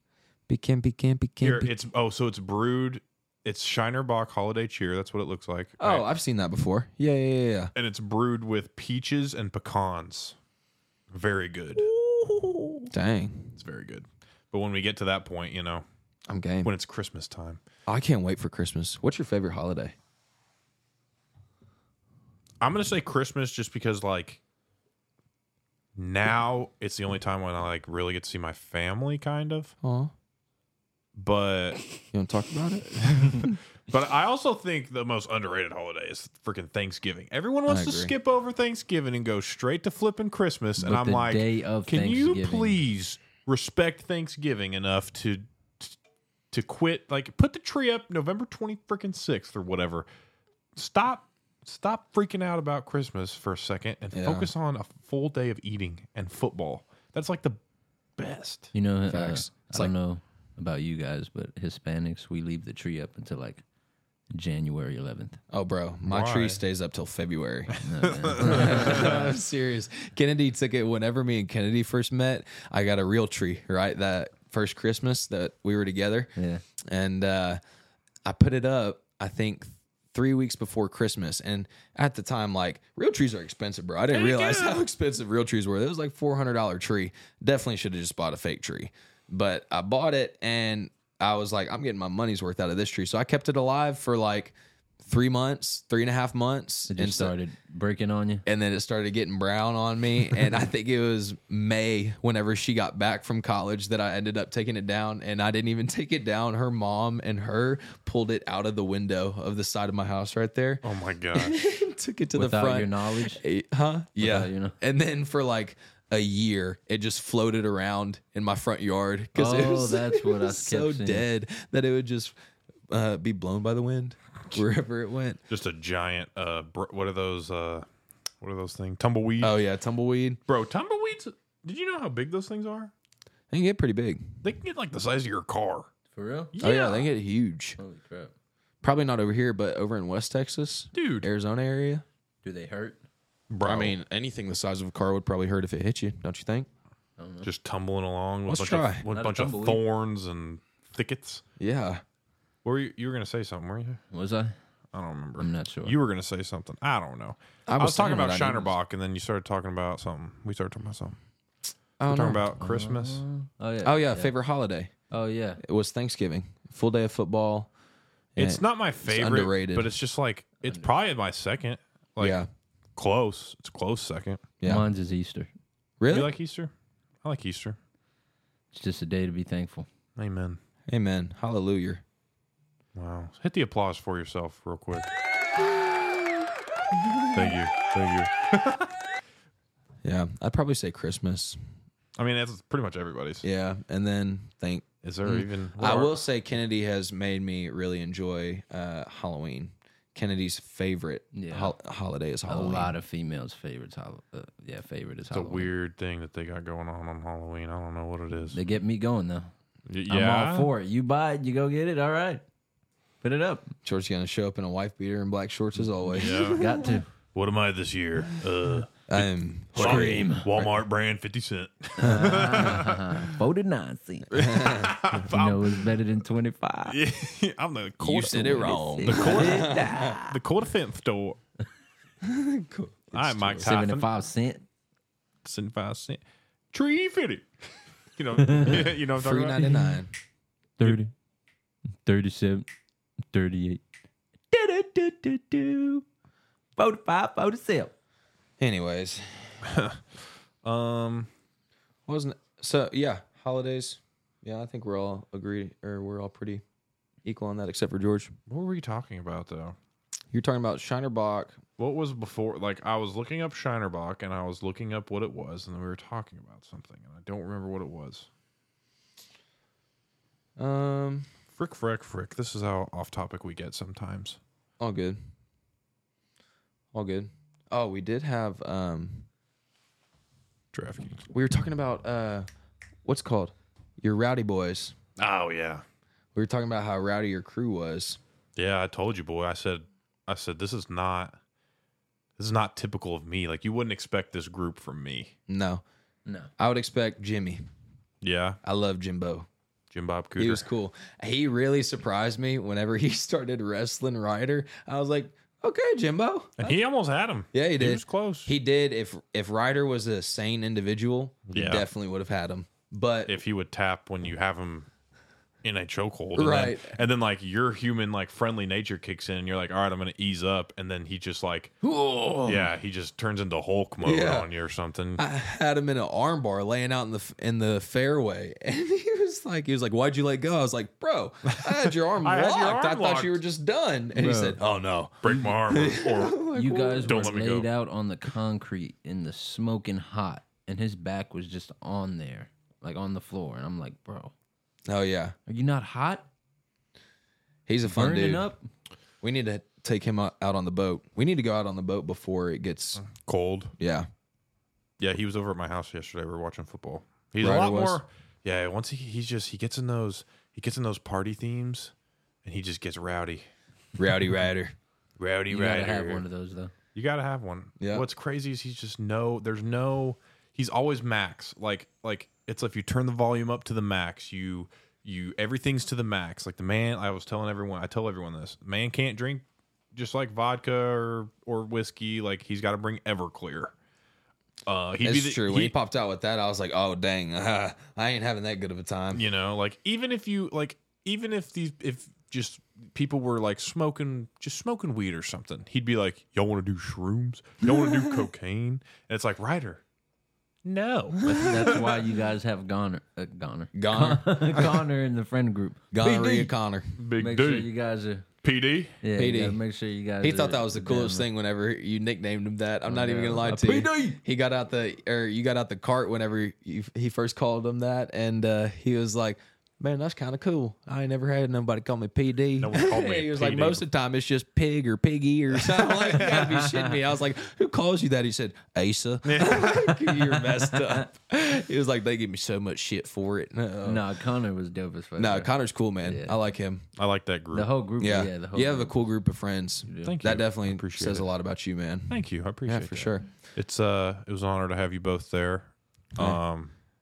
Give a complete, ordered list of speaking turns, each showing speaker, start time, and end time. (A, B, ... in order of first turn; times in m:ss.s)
0:00.5-0:01.7 A
0:01.4-0:06.0 B
0:05.8-0:07.7 A
0:07.8-0:10.4 B
0:11.1-0:11.9 B
0:11.9-0:13.6 A
0:13.6-0:15.8 B
0:16.3-0:16.7 A
0:16.6-0:17.6 B
0:17.9-0:20.0 A
0:22.6-0:24.4 B
0:26.0-0:29.8 B
0:29.8-0:30.1 A
0:31.2-0:31.8 B
0:32.1-0:33.6 A
0:33.0-0:46.0 B
0:37.7-0:38.1 A
0:40.8-0:42.8 C
0:46.5-0:50.1 B
0:50.8-0:57.6 B
0:54.1-0:54.5 A
0:58.2-0:58.7 B
0:58.7-1:03.6 C
0:59.1-0:59.9 A
1:04.3-1:05.4 C
1:05.5-1:07.8 A
1:06.1-1:06.6 B
1:07.8-1:09.1 B
1:07.8-1:09.3 C
1:08.3-1:17.6 A
1:16.4-1:16.6 C
1:18.2-1:37.4 A
1:24.1-1:24.8 B
1:36.9-1:38.4 C
1:38.5-2:02.3 A
1:50.8-1:51.6 B
1:52.4-1:53.4 C
1:54.2-1:54.8 C
1:59.4-2:01.3 C
2:02.9-2:05.4 A
2:05.5-2:07.9 B
2:08.4-2:09.6 B
2:09.4-2:10.4 A
2:10.5-2:12.9 B
2:13.5-2:14.4 A
2:14.4-2:15.9 B
2:16.1-2:16.6 C
2:16.5-2:17.1 B
2:16.6-2:17.8 A
2:17.8-2:18.3 C
2:18.8-2:22.0 A
2:20.9-2:21.3 B
2:22.4-2:23.0 C
2:23.5-2:24.0 B
2:23.6-2:26.7 A
2:27.2-2:27.5 C
2:27.4-2:31.4 B
2:28.5-2:29.0 A
2:29.1-2:29.8 C
2:31.6-2:32.0 A
2:32.6-2:34.0 B
2:34.1-2:34.5 C
2:34.9-2:41.2 B
2:35.4-2:36.0 C
2:37.7-2:38.7 A
2:42.0-2:42.5 A
2:42.0-2:43.2 B
2:42.6-2:44.3 C
2:43.8-2:44.9 A
2:45.1-2:45.6 C
2:45.6-2:47.7 A
2:48.4-2:49.9 A
2:48.4-2:52.4 B
2:52.2-2:52.5 A
2:53.0-2:54.4 B
2:54.6-2:54.9 A
2:54.6-2:55.5 C
2:56.0-2:56.3 A
2:56.1-2:56.7 B
2:57.2-2:57.8 B
2:58.7-2:59.9 C
3:00.2-3:00.6 B
3:00.9-3:02.0 A
3:03.0-3:05.1 B
3:07.3-3:08.9 B
3:10.0-3:11.6 A
3:12.2-3:13.5 B
3:13.4-3:23.0 A
3:15.0-3:16.2 B
3:21.3-3:21.7 C
3:22.5-3:25.7 C
3:25.3-3:28.6 B
3:28.5-3:29.5 C
3:29.9-3:30.7 B
3:30.1-3:32.4 C
3:33.2-3:33.7 C
3:33.8-3:37.0 A
3:36.1-3:36.7 B
3:36.2-3:37.1 C
3:37.3-3:43.3 B
3:39.1-3:40.7 A
3:39.8-3:40.5 C
3:42.0-3:44.5 C
3:42.0-3:42.4 A
3:44.3-3:45.9 B
3:44.4-3:45.0 A
3:45.2-3:47.0 C
3:46.9-3:51.4 B
3:48.0-3:50.2 A
3:48.5-3:50.4 C
3:52.2-3:53.7 A
3:53.1-3:54.1 B
3:53.6-3:54.6 C
3:55.4-3:56.2 B
3:56.7-3:57.5 B
3:58.1-3:59.7 B
3:58.4-3:58.9 C
3:59.1-4:00.1 A
3:59.6-4:00.0 C
4:00.8-4:01.1 C
4:02.0-4:02.7 C
4:03.3-4:03.8 C
4:04.5-4:06.0 C
4:06.8-4:07.9 C
4:08.6-4:09.5 A
4:09.6-4:10.0 B
4:10.6-4:11.3 B
4:12.1-4:16.6 A
4:17.2-4:18.4 A
4:18.5-4:19.8 B
4:20.3-4:21.6 A
4:21.8-4:28.3 B
4:30.6-4:31.3 A
4:31.5-4:34.4 B
4:34.8-4:35.2 A
4:36.9-4:39.3 A
4:40.7-4:41.2 B
4:41.3-4:42.5 A
4:43.0-4:45.0 A
4:45.2-4:45.8 B
4:46.4-4:48.2 A
4:48.6-4:51.4 B
4:52.4-4:55.3 B
4:55.5-4:55.8 A
4:56.3-4:56.5 C
4:56.6-4:57.6 A
4:58.2-4:58.6 B
4:58.6-4:59.5 A
4:59.9-5:00.7 B
5:00.4-5:06.8 A
5:06.6-5:08.5 B
5:07.5-5:13.3 A
5:11.5-5:11.9 B
5:13.3-5:14.9 B
5:15.6-5:21.7 B
5:16.4-5:16.9 A
5:21.8-5:22.7 A
5:22.4-5:25.2 B
5:24.0-5:24.5 A
5:25.2-5:37.4 A
5:31.5-5:33.4 B
5:34.2-5:34.6 C
5:35.2-5:36.4 B
5:36.5-5:44.3 C
5:37.1-5:37.7 B
5:44.9-5:45.4 A
5:45.5-5:46.3 C
5:47.7-5:48.5 A
5:47.9-5:48.6 C
5:49.2-5:53.0 A
5:53.0-5:53.7 B
5:53.8-5:54.1 A
5:55.0-6:01.9 B
5:57.4-5:58.0 A
6:02.4-6:03.4 B
6:04.0-6:04.7 A
6:05.2-6:06.2 B
6:05.5-6:06.7 C
6:07.0-6:23.7 B
6:07.8-6:08.0 A
6:24.7-6:25.8 B
6:25.0-6:29.2 A
6:29.1-6:39.8 B
6:40.6-6:42.0 B
6:41.3-6:41.5 A
6:41.3-6:46.5 C
6:43.7-6:44.8 A
6:45.9-6:46.9 A
6:47.0-6:47.7 B
6:47.2-6:48.3 C
6:48.4-6:49.0 B
6:49.0-6:51.3 C
6:49.2-6:49.6 A
6:50.2-7:14.0 A
6:52.9-6:54.2 C
7:02.6-7:03.8 B
7:05.8-7:07.0 C
7:09.2-7:10.2 B
7:13.8-7:16.4 C
7:15.2-7:16.8 A
7:17.0-7:17.7 B
7:17.5-7:19.0 C
7:18.0-7:23.2 A
7:19.9-7:20.2 C
7:20.0-7:21.3 B
7:22.1-7:26.7 B